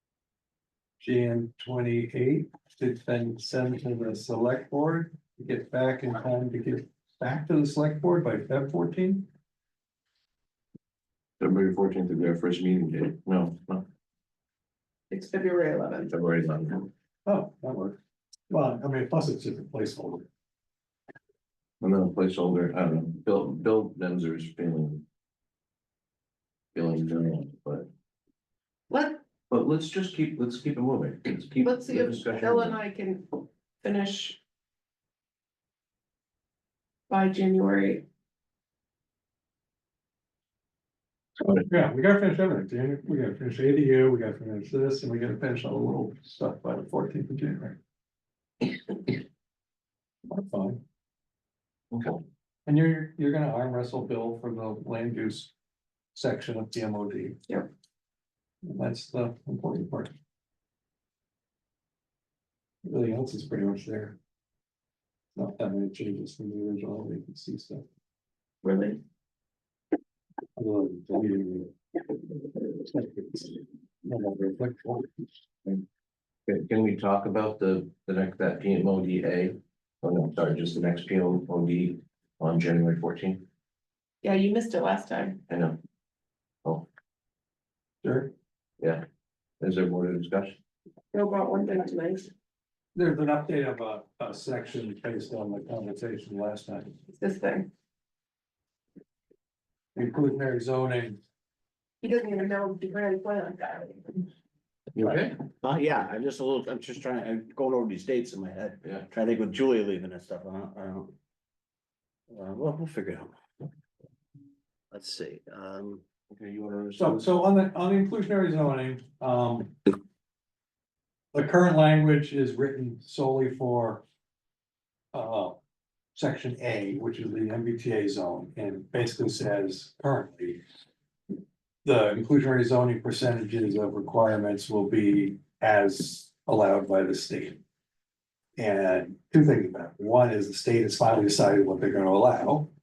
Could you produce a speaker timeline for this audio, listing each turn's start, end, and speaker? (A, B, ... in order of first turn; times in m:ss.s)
0:01.0-0:09.3 A
0:11.4-0:13.8 B
0:15.1-0:16.1 C
0:16.1-0:16.9 B
0:17.2-0:18.0 A
0:18.5-0:20.2 A
0:21.8-0:25.0 B
0:26.7-0:27.9 B
0:28.9-0:29.2 C
0:29.5-0:32.8 B
0:31.6-0:34.4 C
0:37.1-0:38.0 C
0:41.4-0:47.8 A
0:50.3-0:50.8 A
0:51.9-0:52.2 B
0:52.6-0:55.5 A
0:56.1-0:57.4 A
0:58.6-1:00.1 A
1:02.8-1:04.2 A
1:05.3-1:07.8 A
1:08.6-1:09.0 C
1:10.6-1:11.7 A
1:12.8-1:15.1 A
1:16.5-1:23.4 B
1:24.2-1:25.4 C
1:25.5-1:25.8 B
1:28.0-1:28.3 A
1:29.6-1:30.6 B
1:31.1-1:32.3 C
1:32.9-1:37.0 A
1:37.1-1:37.7 C
1:39.9-1:41.2 A
1:42.0-1:44.3 C
1:44.9-1:45.4 B
1:45.0-1:51.1 D
1:52.3-1:53.3 D
1:54.9-1:56.0 D
1:56.3-1:57.2 B
1:57.0-1:59.8 A
2:01.3-2:04.0 A
2:05.1-2:05.6 A
2:06.1-2:10.6 A
2:11.8-2:17.6 A
2:18.6-2:22.7 A